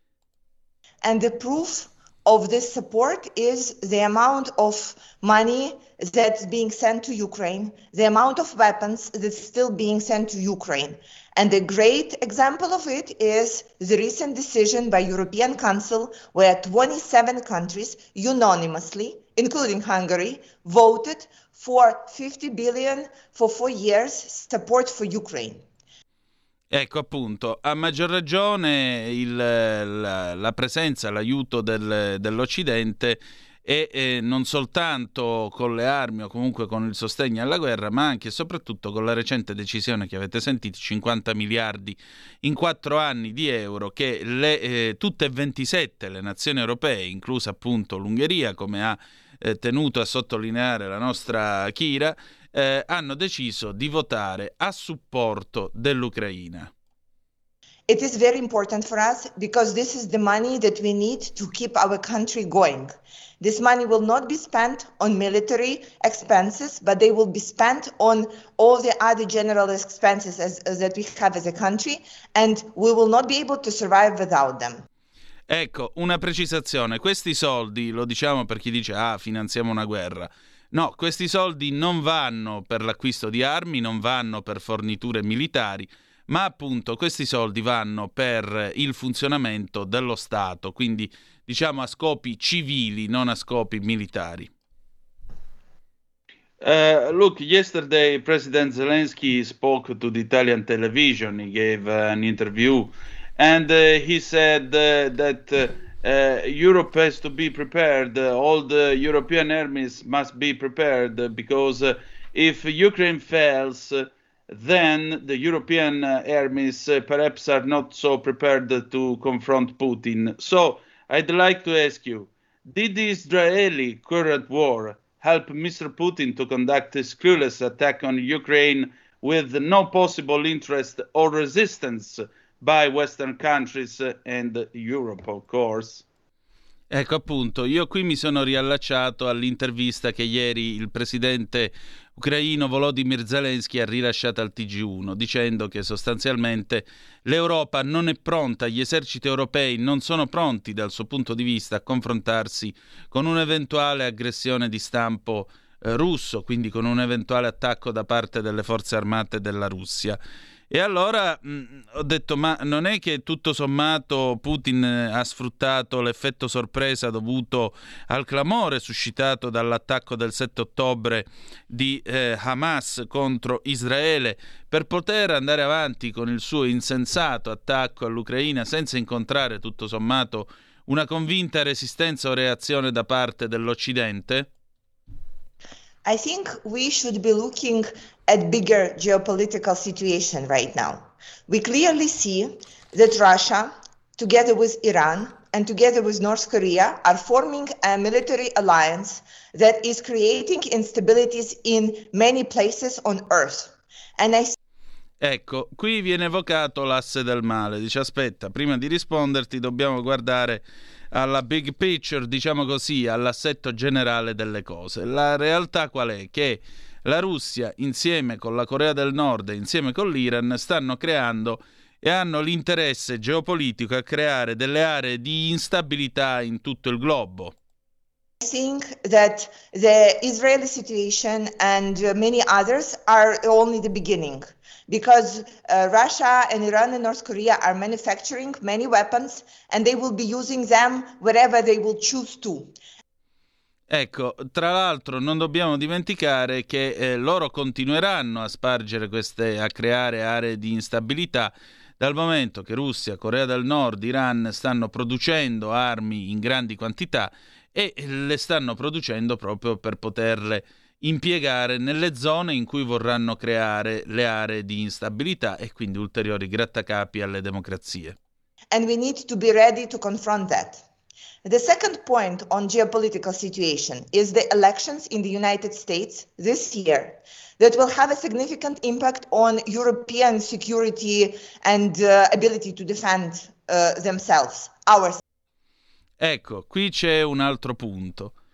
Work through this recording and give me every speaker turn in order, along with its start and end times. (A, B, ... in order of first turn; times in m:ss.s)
0:01.0-0:25.6 A
0:26.7-0:56.7 B
0:57.9-1:14.8 A
1:15.5-1:34.5 B
1:36.6-2:16.0 C
2:16.9-2:40.2 B
2:40.7-3:04.5 B
3:06.0-3:24.6 A
3:25.2-3:47.6 B
3:48.4-4:02.7 A
4:03.9-4:28.2 B
4:28.7-4:30.8 A
4:31.4-4:45.2 A
4:46.2-4:48.3 B